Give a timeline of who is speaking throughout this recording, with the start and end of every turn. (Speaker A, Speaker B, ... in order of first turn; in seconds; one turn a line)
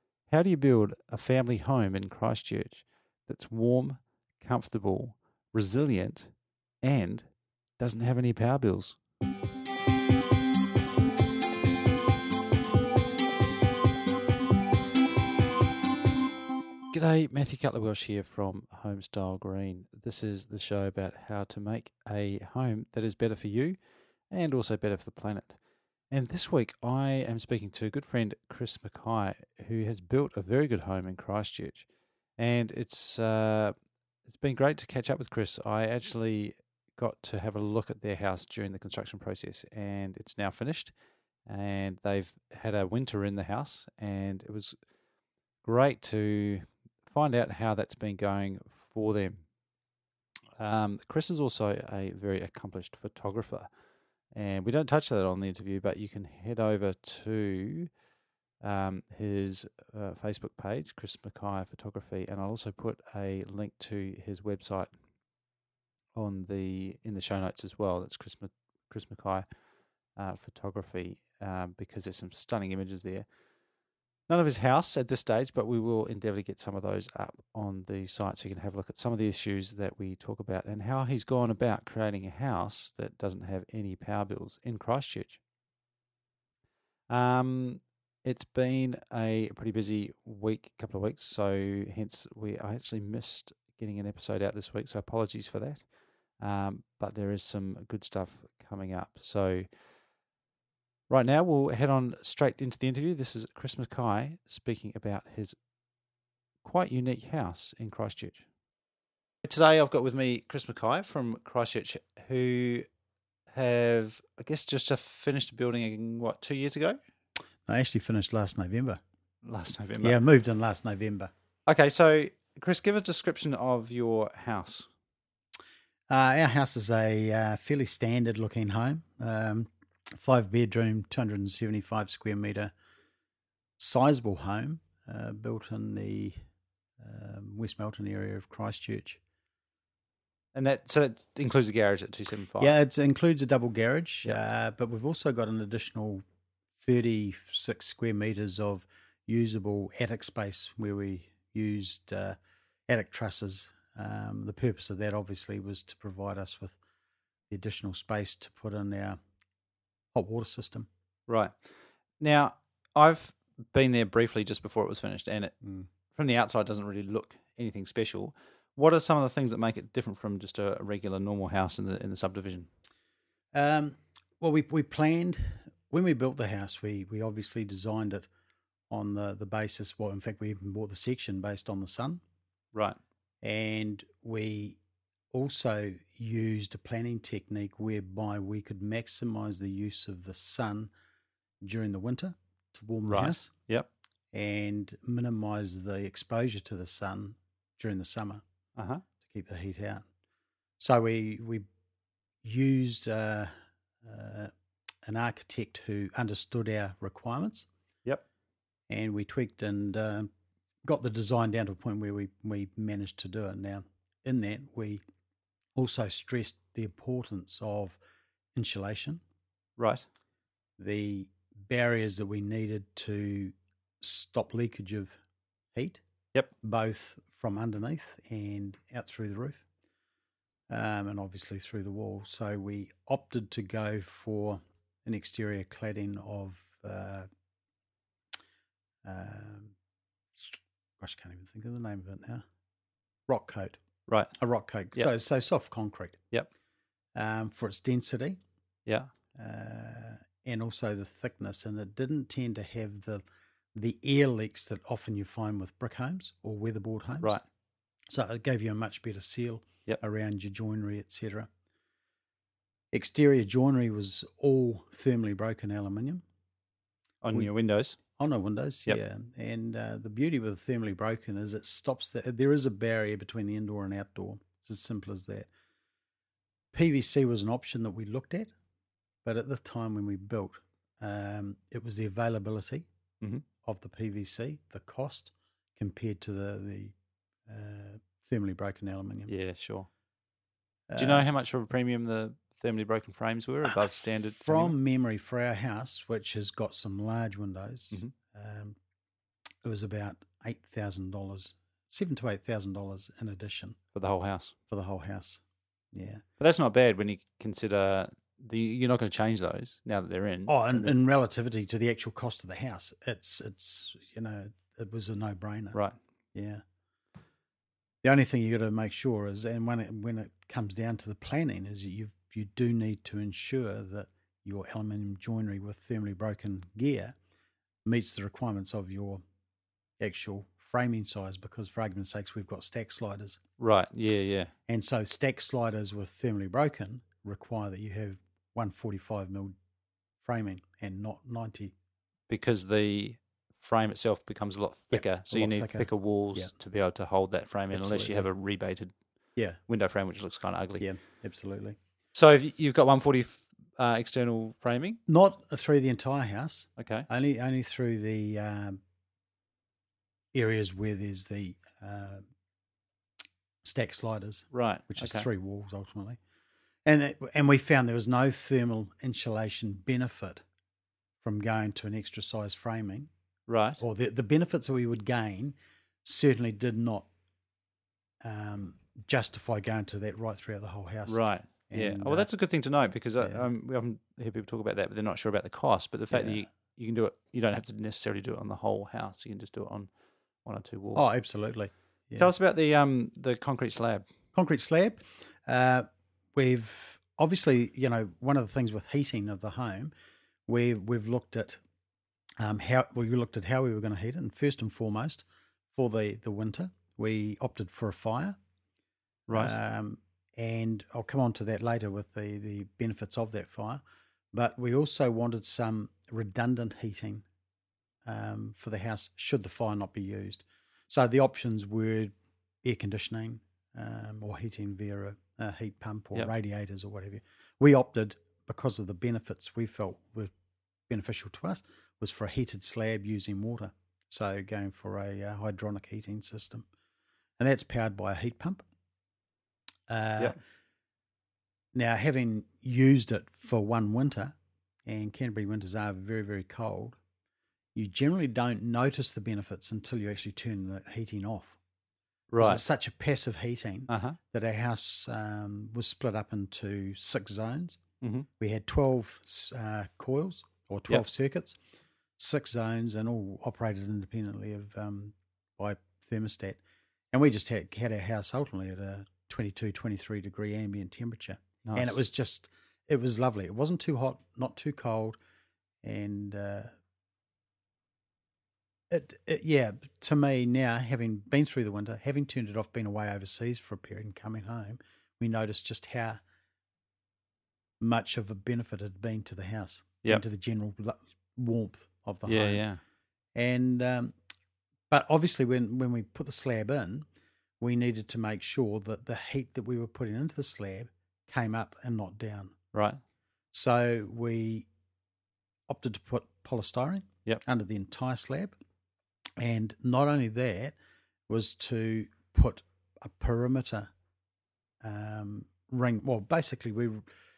Speaker A: 0.3-9.0
Speaker A: 16.9-23.8
Speaker A: 24.3-25.6
Speaker A: 26.1-31.8
Speaker A: 32.4-33.7
Speaker A: 34.3-40.9
Speaker A: 41.5-44.7
Speaker A: 45.6-49.4
Speaker A: 50.6-53.7
Speaker A: 54.3-57.9
Speaker A: 58.6-64.9
Speaker A: 66.2-69.4
Speaker A: 70.2-73.2
Speaker A: 74.3-85.4
Speaker A: 87.1-95.8
Speaker A: 96.4-99.7
Speaker A: 101.1-105.5
Speaker A: 106.6-108.4
Speaker A: 109.4-112.8
Speaker A: 113.5-117.0
Speaker B: 117.7-119.0
Speaker A: 119.4-120.2
Speaker B: 120.0-121.3
Speaker A: 121.7-124.9
Speaker B: 126.1-132.7
Speaker B: 133.8-136.4
Speaker B: 137.0-139.2
Speaker A: 140.5-142.7
Speaker B: 142.6-146.2
Speaker B: 146.8-152.4
Speaker B: 152.9-156.8
Speaker B: 157.5-159.2
Speaker B: 160.1-160.9
Speaker A: 161.3-161.6
Speaker A: 162.2-165.5
Speaker A: 166.1-172.7
Speaker B: 173.5-178.3
Speaker B: 178.9-182.2
Speaker B: 183.4-184.8
Speaker B: 185.3-190.9
Speaker B: 191.6-193.5
Speaker A: 193.1-193.9
Speaker B: 194.3-198.4
Speaker A: 198.8-199.0
Speaker B: 199.2-200.0
Speaker B: 200.8-201.7
Speaker B: 202.4-203.5
Speaker B: 204.0-204.5
Speaker B: 205.0-207.7
Speaker B: 208.9-210.3
Speaker B: 210.8-215.0
Speaker B: 215.8-218.0
Speaker B: 218.5-219.2
Speaker A: 219.8-220.0
Speaker B: 220.8-225.1
Speaker B: 225.7-226.0
Speaker B: 226.6-229.6
Speaker B: 230.7-237.3
Speaker B: 239.0-239.7
Speaker B: 241.0-242.4
Speaker B: 243.3-243.8
Speaker A: 244.1-244.3
Speaker B: 244.4-246.2
Speaker B: 247.1-248.4
Speaker B: 249.3-253.2
Speaker B: 253.7-257.3
Speaker B: 258.1-261.5
Speaker B: 262.9-266.2
Speaker A: 267.2-268.0
Speaker B: 268.1-275.5
Speaker B: 276.7-278.5
Speaker B: 279.2-282.9
Speaker B: 283.6-286.9
Speaker B: 287.5-289.3
Speaker A: 289.3-289.9
Speaker B: 290.9-291.2
Speaker A: 291.0-294.7
Speaker B: 294.4-298.8
Speaker B: 299.6-303.8
Speaker A: 303.9-304.5
Speaker B: 304.7-305.4
Speaker B: 305.9-306.2
Speaker A: 306.4-310.9
Speaker B: 310.5-315.8
Speaker B: 316.3-316.6
Speaker B: 318.0-327.1
Speaker B: 327.8-329.2
Speaker B: 330.0-333.4
Speaker A: 333.6-334.5
Speaker B: 334.7-339.5
Speaker B: 340.2-341.7
Speaker A: 342.3-348.9
Speaker B: 344.9-346.5
Speaker B: 347.7-348.3
Speaker A: 349.7-350.9
Speaker B: 350.8-351.8
Speaker A: 352.1-355.0
Speaker B: 355.1-358.8
Speaker A: 356.8-357.1
Speaker B: 360.3-362.2
Speaker B: 363.6-366.2
Speaker A: 364.5-365.3
Speaker B: 366.8-370.4
Speaker B: 371.2-373.1
Speaker A: 373.5-373.8
Speaker B: 373.8-377.1
Speaker B: 378.2-382.3
Speaker A: 381.1-389.9
Speaker B: 383.2-383.4
Speaker B: 386.1-386.4
Speaker A: 390.4-391.0
Speaker B: 390.9-392.3
Speaker A: 392.2-394.0
Speaker B: 394.3-399.9
Speaker B: 400.5-401.6
Speaker B: 402.4-408.4
Speaker A: 409.3-409.6
Speaker B: 409.3-417.2
Speaker B: 418.1-430.3
Speaker B: 430.9-436.7
Speaker B: 437.4-438.6
Speaker B: 439.9-440.4
Speaker B: 441.7-444.3
Speaker B: 444.9-447.0
Speaker B: 447.7-451.6
Speaker A: 452.3-452.6
Speaker B: 452.4-457.8
Speaker A: 453.9-454.2
Speaker A: 458.0-458.3
Speaker B: 458.4-461.6
Speaker B: 462.2-466.6
Speaker B: 467.1-475.2
Speaker A: 471.6-472.0
Speaker B: 475.8-476.7
Speaker B: 478.9-486.2
Speaker B: 487.8-492.6
Speaker A: 492.2-492.8
Speaker B: 493.3-494.1
Speaker B: 494.9-497.0
Speaker B: 497.6-502.5
Speaker A: 502.7-503.0
Speaker B: 503.5-504.7
Speaker B: 505.7-508.5
Speaker B: 509.4-510.7
Speaker B: 511.3-513.9
Speaker B: 514.8-517.0